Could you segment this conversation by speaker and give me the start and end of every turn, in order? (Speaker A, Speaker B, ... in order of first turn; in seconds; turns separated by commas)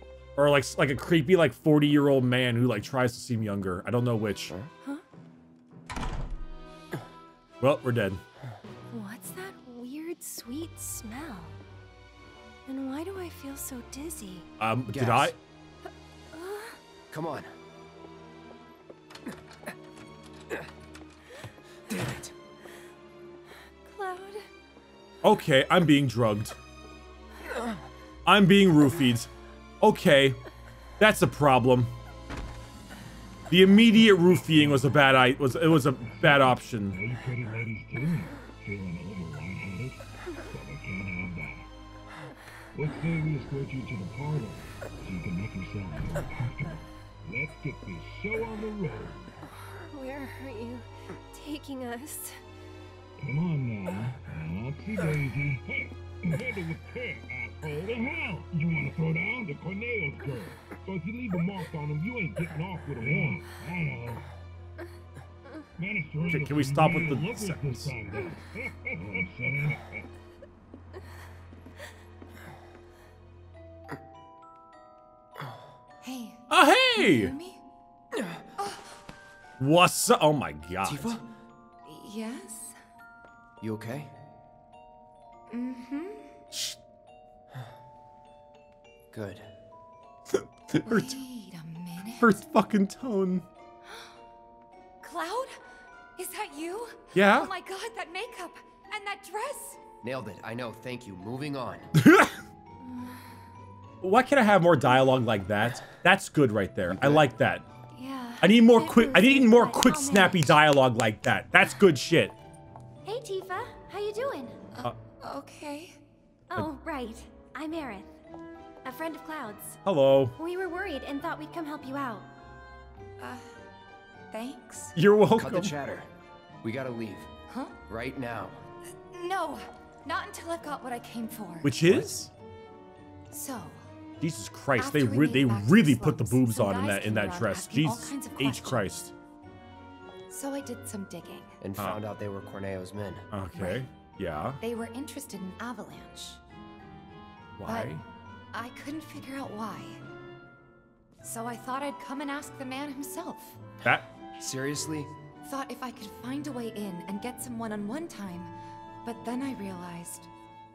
Speaker A: 0.4-4.5, Speaker A: 7.6-8.2, Speaker B: 8.9-11.5, Speaker B: 12.7-14.5, Speaker A: 14.6-15.4, Speaker C: 14.9-15.3, Speaker B: 16.3-16.8, Speaker C: 17.1-17.5, Speaker C: 21.9-22.3, Speaker B: 23.9-24.5, Speaker A: 25.2-26.6, Speaker A: 28.3-29.3, Speaker A: 29.8-30.4, Speaker A: 31.0-31.9, Speaker A: 33.5-37.0, Speaker D: 34.5-34.9, Speaker D: 36.0-41.7, Speaker D: 42.8-49.2, Speaker B: 49.9-52.4, Speaker D: 53.2-64.3, Speaker D: 65.8-70.0, Speaker A: 66.3-68.0, Speaker E: 76.0-76.4, Speaker A: 76.5-77.3, Speaker E: 77.0-77.6, Speaker E: 78.6-78.9, Speaker A: 79.6-81.2, Speaker C: 80.8-81.2, Speaker E: 81.9-82.8, Speaker C: 83.6-84.1, Speaker E: 85.5-86.3, Speaker A: 86.5-86.8, Speaker C: 89.1-89.5, Speaker A: 90.3-91.1, Speaker E: 90.8-92.3, Speaker A: 92.2-93.5, Speaker E: 93.8-94.1, Speaker E: 95.0-95.6, Speaker E: 96.2-99.8, Speaker A: 97.1-97.5, Speaker C: 100.0-101.9, Speaker A: 101.9-102.4, Speaker A: 104.0-107.7, Speaker C: 106.9-107.3, Speaker B: 108.0-110.5, Speaker A: 108.4-112.3, Speaker B: 113.0-114.6, Speaker E: 114.7-116.0, Speaker B: 116.5-118.1, Speaker B: 118.8-119.8, Speaker A: 119.8-120.3, Speaker B: 120.4-122.3, Speaker E: 123.2-123.5, Speaker E: 124.3-124.9, Speaker A: 125.0-125.8, Speaker C: 125.4-126.1, Speaker C: 126.6-127.3, Speaker E: 127.5-127.8, Speaker C: 127.9-128.6, Speaker E: 129.1-132.0, Speaker A: 131.6-132.3, Speaker C: 131.9-132.2, Speaker E: 133.3-133.9, Speaker A: 134.2-139.1, Speaker E: 134.8-138.9, Speaker E: 140.3-141.5, Speaker C: 141.6-143.3, Speaker A: 141.8-142.0, Speaker A: 143.3-144.6, Speaker E: 143.6-143.8, Speaker E: 144.6-146.4, Speaker A: 147.6-148.0, Speaker E: 147.7-148.0, Speaker E: 148.5-150.0, Speaker E: 151.2-153.6, Speaker C: 154.4-155.1, Speaker E: 155.4-158.5, Speaker E: 159.0-160.3